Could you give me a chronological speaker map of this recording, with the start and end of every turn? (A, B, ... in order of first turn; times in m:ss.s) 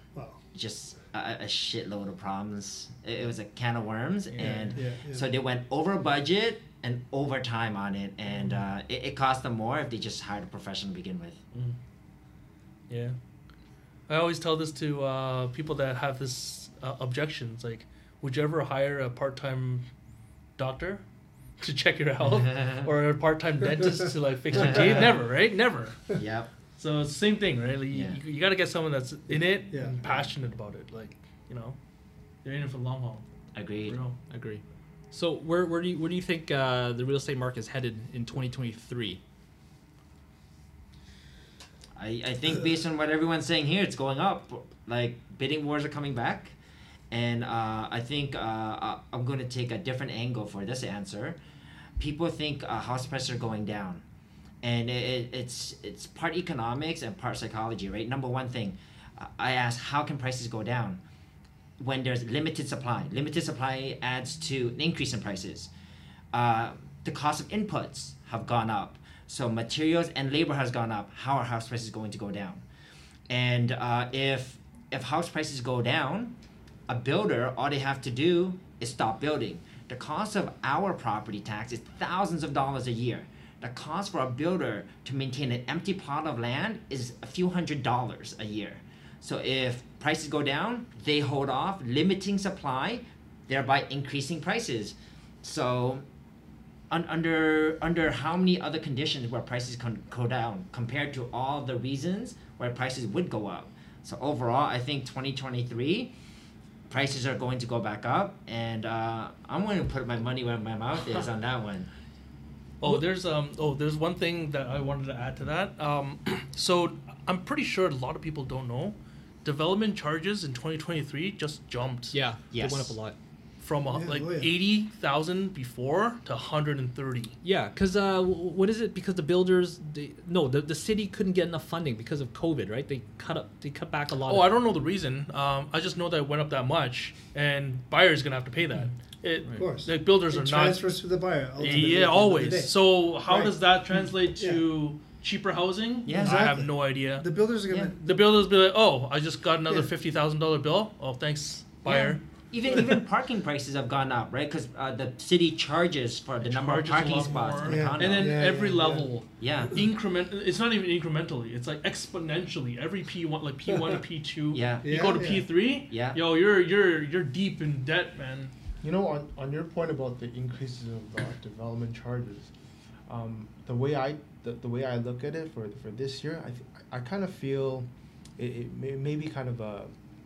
0:00.1-0:00.4 A
0:00.5-0:11.4 B
0:04.4-0:05.3 A
0:12.9-0:13.2 C
0:14.1-0:19.8 C
0:20.6-0:21.0 C
0:21.6-0:26.1 C
0:22.2-0:22.9 B
0:24.5-0:25.2 B
0:24.6-0:25.0 A
0:26.1-0:26.5 B
0:26.8-0:31.8 C
0:27.9-0:28.2 B
0:29.7-0:30.0 A
0:32.4-0:33.2 C
0:33.5-0:34.0 B
0:33.8-0:34.2 C
0:34.3-0:39.2 D
0:42.0-0:46.6 B
0:47.1-0:51.4 B
0:52.0-0:54.0 B
0:54.6-1:01.0 B
1:01.8-1:05.7 B
1:06.3-1:12.6 B
1:13.3-1:16.3 B
1:16.9-1:36.0 B
1:36.9-1:46.1 B
1:46.9-1:51.9 B
1:52.8-2:02.1 C
2:02.1-2:03.2 D
2:02.5-2:02.9 B
2:03.6-2:07.3 C
2:03.9-2:04.5 A
2:07.4-2:14.5 D
2:14.3-2:21.0 C
2:19.6-2:23.5 A
2:21.6-2:27.3 C
2:24.4-2:24.6 A
2:26.0-2:26.5 B
2:26.1-2:28.1 A
2:28.0-2:32.2 C
2:31.8-2:38.4 B
2:36.4-2:48.5 C
2:37.6-2:39.1 A
2:39.4-2:39.8 B
2:44.5-2:45.2 B
2:44.8-2:45.5 A
2:45.9-2:46.2 B
2:48.8-2:52.5 E
2:53.1-2:59.9 E